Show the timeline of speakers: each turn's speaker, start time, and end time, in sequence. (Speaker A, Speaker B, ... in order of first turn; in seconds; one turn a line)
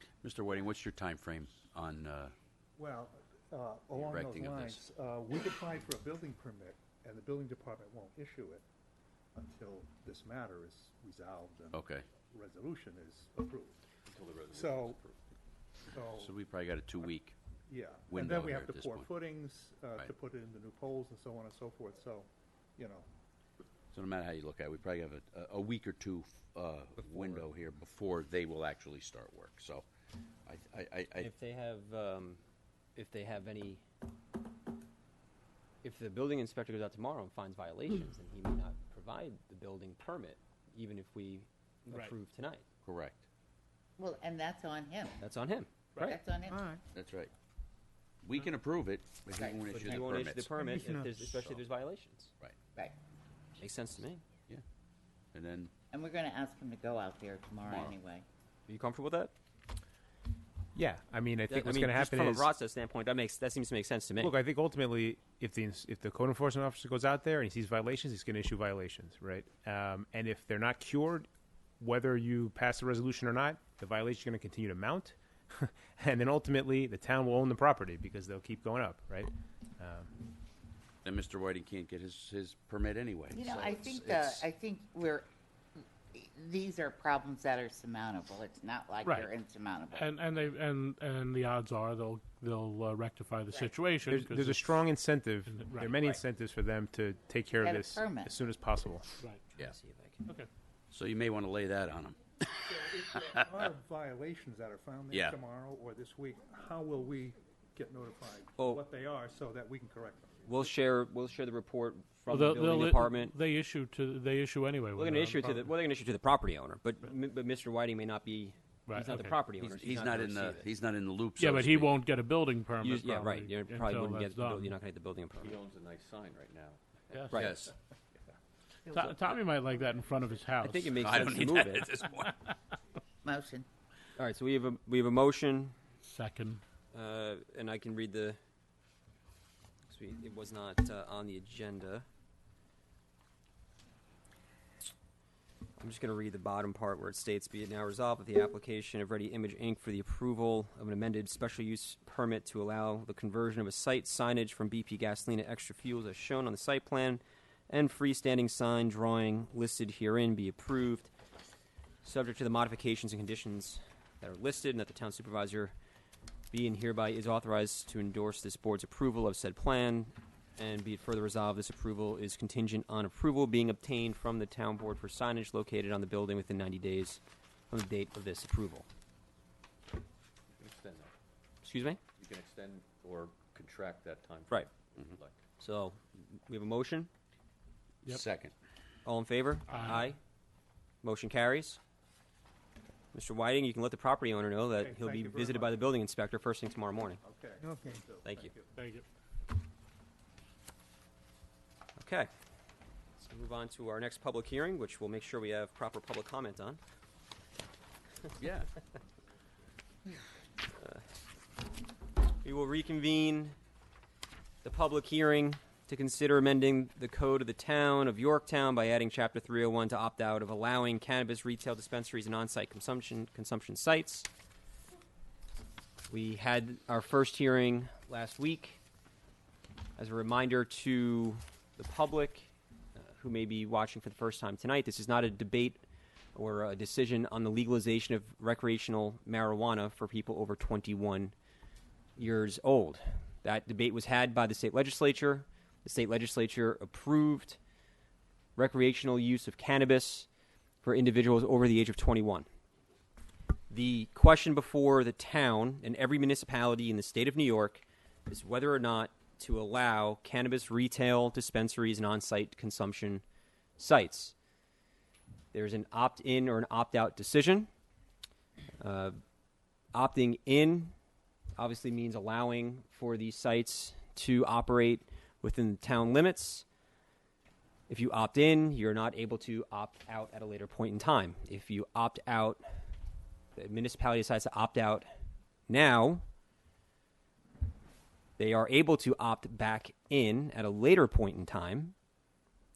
Speaker A: 0.2-2.3
Speaker B: 2.8-8.6
Speaker A: 4.0-4.8
Speaker B: 9.3-13.8
Speaker A: 11.7-12.1
Speaker B: 14.5-15.0
Speaker B: 15.9-16.3
Speaker A: 16.1-17.4
Speaker B: 17.7-23.1
Speaker A: 18.1-19.1
Speaker A: 23.9-29.9
Speaker C: 27.0-27.5
Speaker A: 30.4-31.3
Speaker C: 31.2-32.4
Speaker C: 33.0-33.8
Speaker C: 35.8-42.6
Speaker A: 42.8-43.2
Speaker D: 44.0-45.2
Speaker C: 45.2-46.2
Speaker D: 46.0-46.7
Speaker A: 46.9-47.3
Speaker A: 48.2-50.6
Speaker D: 49.3-50.1
Speaker C: 49.7-52.3
Speaker B: 50.5-51.4
Speaker C: 53.6-54.2
Speaker A: 55.3-55.7
Speaker D: 55.9-58.2
Speaker A: 57.6-58.0
Speaker C: 58.7-59.3
Speaker E: 60.7-62.5
Speaker C: 61.5-64.3
Speaker E: 64.2-71.3
Speaker E: 71.8-80.1
Speaker A: 81.0-84.5
Speaker D: 83.3-85.3
Speaker D: 86.1-90.1
Speaker F: 89.0-89.3
Speaker F: 89.9-94.9
Speaker E: 94.0-99.0
Speaker F: 95.5-96.0
Speaker D: 97.6-98.3
Speaker C: 99.6-100.2
Speaker A: 100.9-103.7
Speaker B: 102.7-110.3
Speaker A: 105.1-105.4
Speaker C: 110.4-113.3
Speaker F: 112.3-115.7
Speaker C: 115.0-120.7
Speaker F: 118.9-119.4
Speaker A: 119.6-122.0
Speaker F: 121.4-124.7
Speaker C: 122.8-125.6
Speaker G: 125.4-126.8
Speaker F: 127.1-127.4
Speaker C: 127.2-127.6
Speaker A: 127.3-127.7
Speaker F: 128.9-131.3
Speaker C: 130.6-131.9
Speaker A: 131.0-132.5
Speaker D: 133.2-133.7
Speaker C: 134.2-135.7
Speaker F: 136.1-136.6
Speaker C: 136.9-138.4
Speaker C: 139.9-142.1
Speaker C: 145.8-161.1
Speaker C: 162.0-165.7
Speaker C: 166.5-178.9
Speaker G: 180.5-181.1
Speaker C: 181.6-182.0
Speaker G: 182.2-185.3
Speaker C: 185.6-187.1
Speaker A: 188.0-188.5
Speaker C: 189.0-190.2
Speaker F: 189.7-190.0
Speaker C: 191.0-191.8
Speaker C: 193.1-197.2
Speaker B: 194.8-195.8
Speaker B: 197.2-198.7
Speaker C: 198.2-198.5
Speaker F: 198.7-199.0
Speaker C: 202.0-202.3
Speaker C: 203.2-206.8
Speaker A: 208.4-208.7
Speaker C: 212.4-213.5
Speaker C: 214.6-224.3
Speaker C: 226.1-228.8
Speaker C: 229.9-235.8
Speaker C: 236.3-241.3
Speaker C: 242.2-247.6
Speaker C: 248.6-250.3
Speaker C: 250.8-252.4
Speaker C: 253.7-263.2
Speaker C: 263.8-264.3
Speaker C: 265.5-267.7
Speaker C: 268.8-269.1
Speaker C: 269.9-270.9
Speaker C: 271.6-276.6
Speaker C: 277.9-282.6
Speaker C: 283.5-285.1
Speaker C: 285.7-286.2
Speaker C: 288.4-291.9